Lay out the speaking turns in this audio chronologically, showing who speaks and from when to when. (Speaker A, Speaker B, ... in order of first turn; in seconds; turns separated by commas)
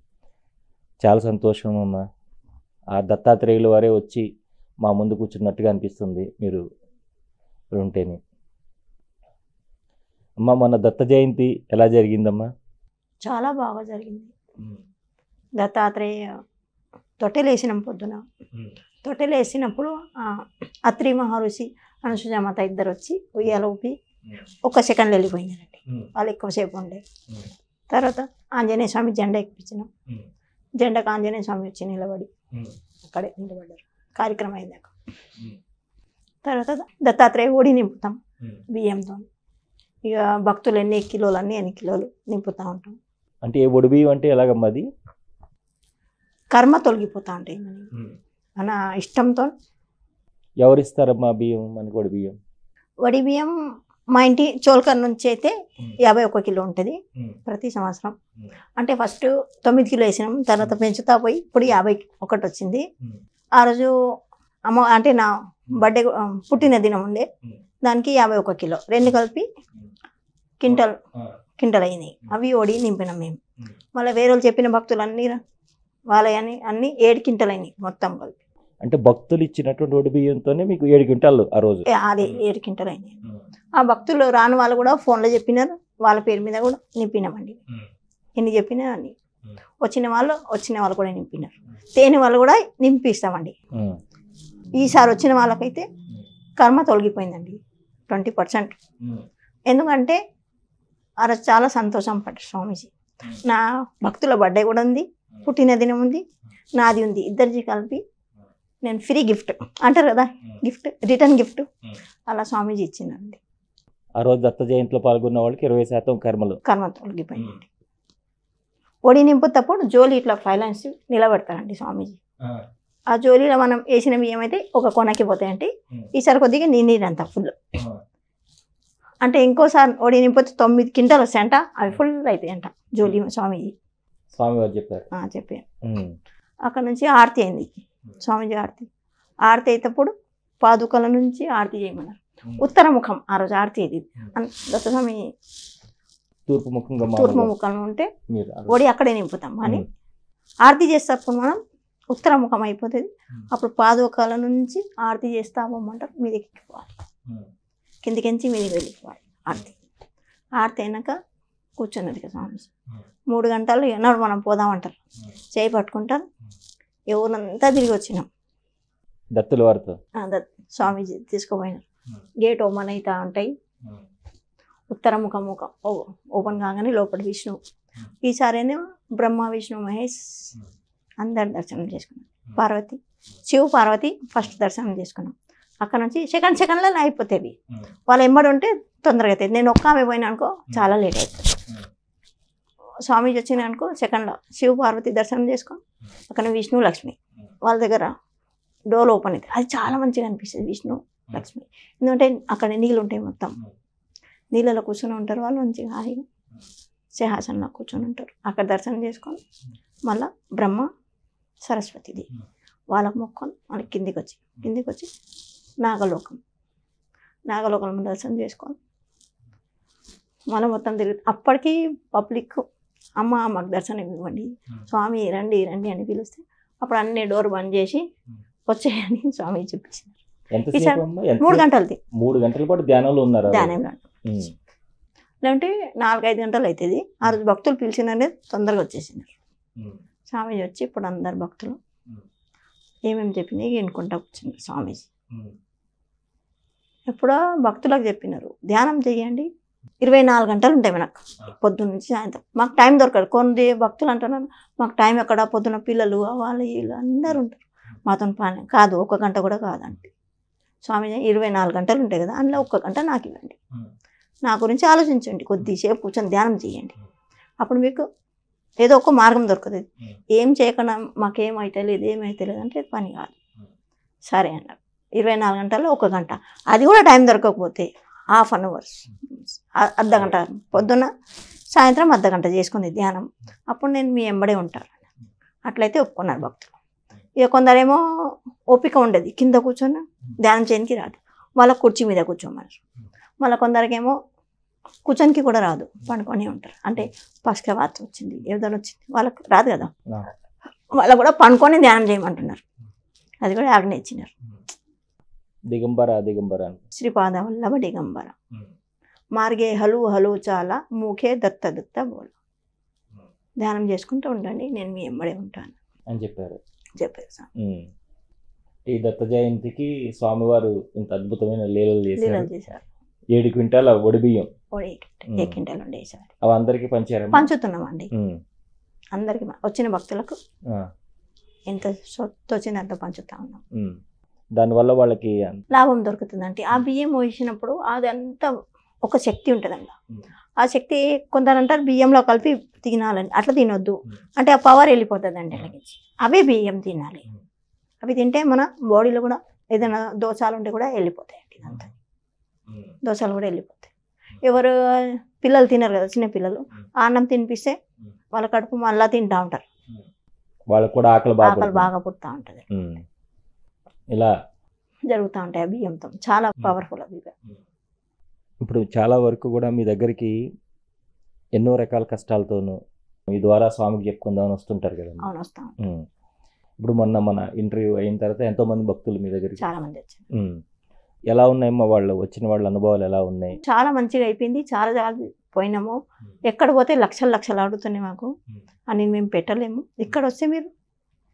Speaker A: 1.0-2.0, Speaker A: 3.0-4.2, Speaker A: 4.8-6.6, Speaker A: 7.8-8.2, Speaker A: 10.4-12.5, Speaker B: 13.2-14.3, Speaker B: 15.6-16.1, Speaker B: 17.2-18.2, Speaker B: 19.0-23.9, Speaker B: 24.6-27.0, Speaker B: 27.9-29.9, Speaker B: 30.8-32.3, Speaker B: 33.1-34.9, Speaker B: 36.4-38.2, Speaker B: 38.7-39.3, Speaker B: 40.1-43.0, Speaker A: 43.4-44.9, Speaker B: 46.5-47.9, Speaker B: 48.6-49.5, Speaker A: 50.6-52.4, Speaker B: 53.0-53.5, Speaker B: 54.1-58.1, Speaker B: 58.8-62.8, Speaker B: 63.6-63.9, Speaker B: 64.7-67.3, Speaker B: 67.8-69.5, Speaker B: 70.6-71.0, Speaker B: 71.6-73.4, Speaker B: 74.0-75.4, Speaker B: 76.1-78.4, Speaker A: 78.8-81.9, Speaker B: 81.9-83.2, Speaker B: 83.8-87.6, Speaker B: 88.4-89.2, Speaker B: 89.8-93.5, Speaker B: 94.8-95.9, Speaker B: 96.6-97.6, Speaker B: 98.1-98.8, Speaker B: 99.7-100.2, Speaker B: 101.2-106.2, Speaker B: 106.8-108.0, Speaker B: 108.8-111.7, Speaker B: 112.3-113.4, Speaker A: 114.2-116.6, Speaker B: 116.7-117.7, Speaker B: 119.0-122.2, Speaker B: 123.1-127.6, Speaker B: 129.2-133.8, Speaker A: 134.3-135.1, Speaker B: 135.1-135.7, Speaker A: 135.8-136.2, Speaker B: 136.7-137.7, Speaker B: 138.2-138.9, Speaker B: 139.5-145.2, Speaker A: 146.5-147.5, Speaker B: 147.1-148.1, Speaker A: 148.3-148.8, Speaker B: 148.7-149.9, Speaker B: 150.7-151.6, Speaker B: 152.1-156.9, Speaker B: 158.0-159.8, Speaker B: 160.6-161.2, Speaker B: 161.8-162.7, Speaker B: 163.3-165.0, Speaker B: 165.6-166.2, Speaker B: 167.1-168.3, Speaker A: 169.3-170.0, Speaker B: 170.2-171.8, Speaker B: 172.4-173.5, Speaker B: 174.9-177.6, Speaker B: 178.2-180.6, Speaker B: 181.2-187.6, Speaker B: 188.1-191.6, Speaker B: 193.1-198.1, Speaker B: 198.9-203.6, Speaker B: 204.5-206.2, Speaker B: 207.2-209.4, Speaker B: 210.1-210.9, Speaker B: 211.6-212.3, Speaker B: 212.9-215.1, Speaker B: 215.8-216.4, Speaker B: 217.5-218.8, Speaker B: 220.5-222.6, Speaker B: 223.2-228.0, Speaker B: 228.7-230.2, Speaker A: 230.5-233.7, Speaker B: 230.7-232.0, Speaker B: 233.5-234.1, Speaker A: 234.2-234.5, Speaker B: 235.4-239.3, Speaker B: 240.3-241.8, Speaker B: 243.1-245.1, Speaker B: 247.1-249.5, Speaker B: 250.0-260.1, Speaker B: 260.8-263.6, Speaker B: 264.4-267.0, Speaker B: 267.6-268.0, Speaker B: 268.8-273.3, Speaker B: 274.3-281.1, Speaker B: 281.7-285.0, Speaker B: 285.6-286.8, Speaker B: 287.4-288.0, Speaker B: 288.7-292.8, Speaker B: 293.4-294.1, Speaker B: 295.1-299.9, Speaker B: 300.9-302.6, Speaker B: 303.4-304.3, Speaker A: 305.7-306.8, Speaker B: 306.9-308.3, Speaker B: 309.3-312.3, Speaker B: 313.6-315.8, Speaker A: 316.1-316.6, Speaker B: 317.0-317.5, Speaker A: 317.6-317.9, Speaker A: 318.9-322.5, Speaker B: 322.2-322.8, Speaker A: 323.3-324.5, Speaker B: 324.7-326.3, Speaker A: 326.4-327.5, Speaker B: 327.3-328.1, Speaker A: 328.1-328.4, Speaker B: 329.1-330.3, Speaker B: 331.7-333.6, Speaker A: 334.6-335.6, Speaker B: 335.7-338.5, Speaker B: 339.0-339.9, Speaker B: 340.6-347.2, Speaker B: 348.0-351.9, Speaker B: 353.0-353.9, Speaker B: 354.4-357.8, Speaker B: 358.3-359.7, Speaker A: 360.7-361.9, Speaker B: 361.4-362.7, Speaker A: 362.7-363.0, Speaker B: 365.1-367.3, Speaker A: 368.6-370.4, Speaker A: 371.5-372.8, Speaker A: 373.3-375.3, Speaker B: 375.2-375.8, Speaker A: 376.8-379.6, Speaker B: 379.6-380.2, Speaker A: 380.3-380.6, Speaker A: 381.3-383.6, Speaker B: 383.6-386.0, Speaker B: 386.5-388.3, Speaker B: 388.9-390.7